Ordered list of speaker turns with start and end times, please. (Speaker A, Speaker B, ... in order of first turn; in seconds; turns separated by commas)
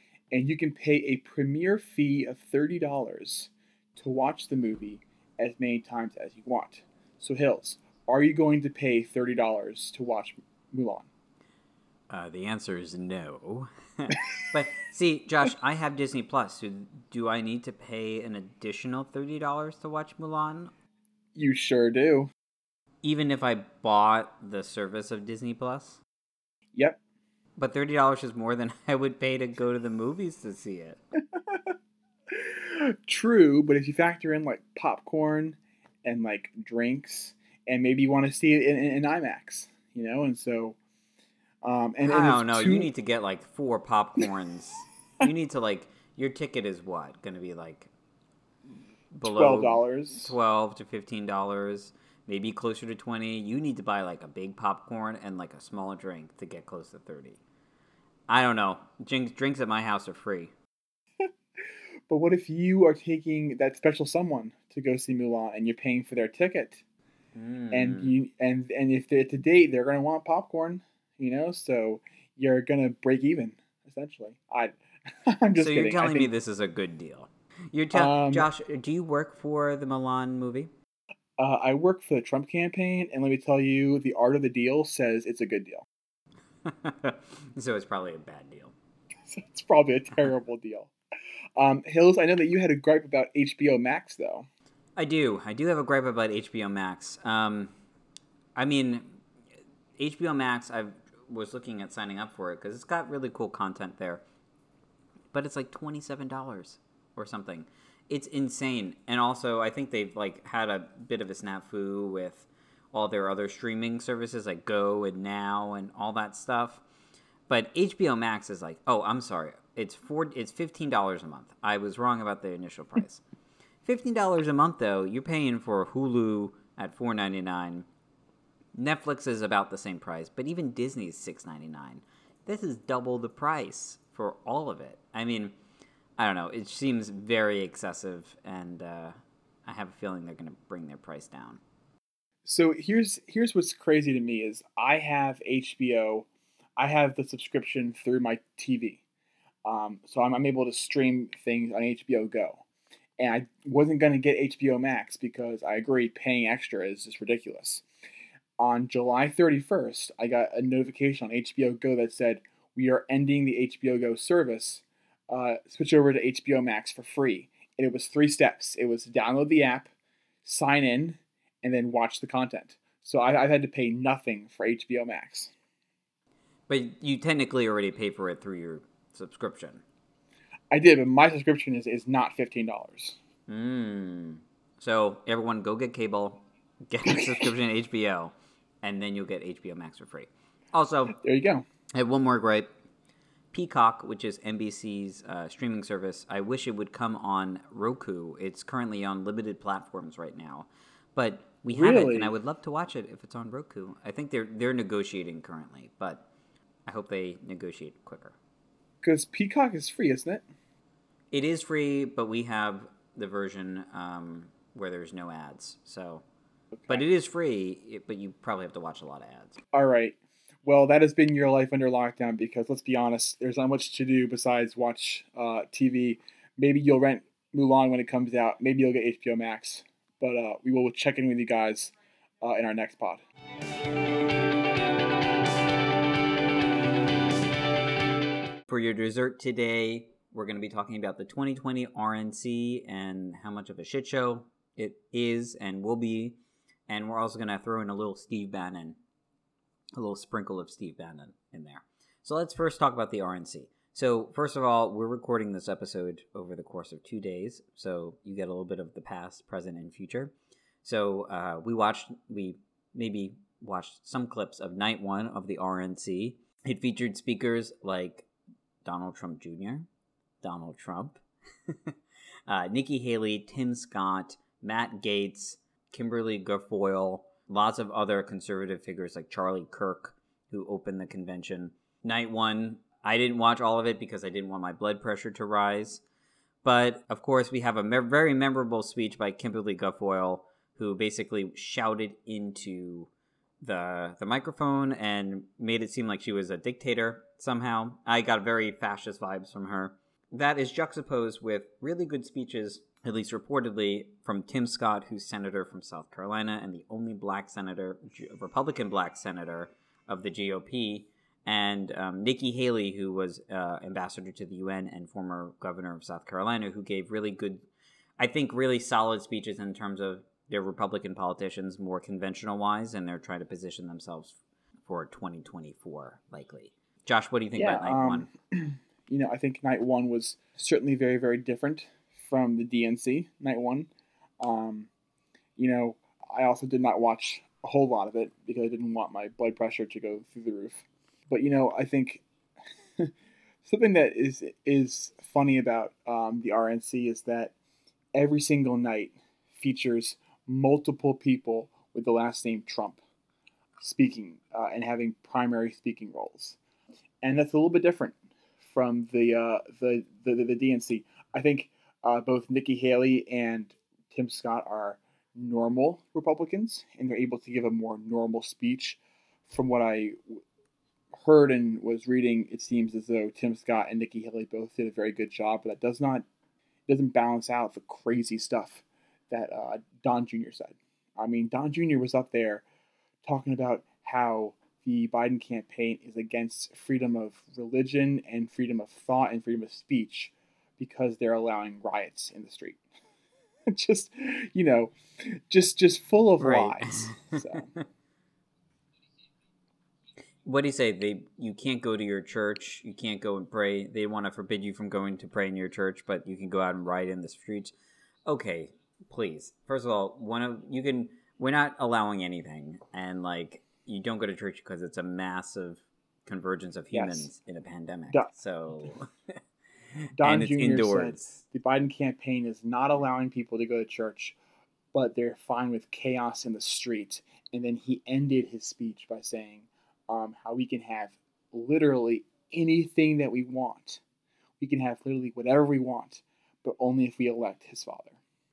Speaker A: 0.3-11.1, Speaker B: 12.1-20.7, Speaker A: 21.3-22.3, Speaker B: 23.0-26.0, Speaker A: 26.7-27.0, Speaker B: 27.6-31.0, Speaker A: 31.3-31.7, Speaker A: 32.3-40.8, Speaker A: 41.6-42.9, Speaker B: 42.0-47.9, Speaker B: 49.2-57.4, Speaker A: 49.2-50.3, Speaker B: 58.3-60.5, Speaker A: 62.1-66.8, Speaker B: 67.3-68.1, Speaker A: 67.7-74.7, Speaker A: 75.3-76.3, Speaker B: 75.6-80.7, Speaker A: 77.9-78.5, Speaker A: 81.4-85.8, Speaker B: 86.6-88.7, Speaker A: 89.3-90.9, Speaker A: 91.6-94.5, Speaker B: 95.0-97.7, Speaker B: 98.5-99.2, Speaker B: 100.0-104.2, Speaker B: 105.3-116.8, Speaker B: 117.5-123.2, Speaker B: 123.8-127.9, Speaker B: 128.7-135.6, Speaker B: 136.2-141.6, Speaker A: 142.4-146.3, Speaker A: 146.8-149.0, Speaker A: 149.6-152.6, Speaker A: 153.2-157.8, Speaker A: 158.6-169.9, Speaker A: 170.4-175.5, Speaker B: 176.7-179.8, Speaker A: 180.7-183.2, Speaker B: 183.5-191.2, Speaker A: 187.1-187.4, Speaker A: 191.1-191.6, Speaker B: 191.9-192.7, Speaker B: 193.5-206.3, Speaker A: 201.7-202.3, Speaker B: 206.8-208.3, Speaker A: 209.0-210.4, Speaker B: 211.3-216.2, Speaker B: 216.9-219.6, Speaker A: 219.7-233.2, Speaker B: 238.7-249.0, Speaker B: 250.0-260.3, Speaker B: 260.8-268.3, Speaker B: 268.8-269.9, Speaker B: 270.4-271.9, Speaker B: 272.5-286.0, Speaker B: 286.6-317.7, Speaker B: 318.2-328.3, Speaker A: 327.5-333.9, Speaker A: 334.4-334.9, Speaker A: 335.6-342.2, Speaker A: 343.6-347.5, Speaker A: 348.1-353.0, Speaker A: 353.8-356.6, Speaker A: 357.2-370.4, Speaker A: 371.2-376.2, Speaker A: 376.9-382.6, Speaker A: 383.2-392.8, Speaker A: 393.7-397.7, Speaker B: 396.4-397.8, Speaker B: 400.4-407.7, Speaker B: 408.3-419.1, Speaker A: 416.9-417.3, Speaker A: 420.2-424.4, Speaker B: 420.2-421.4, Speaker A: 424.9-434.0, Speaker A: 434.6-438.2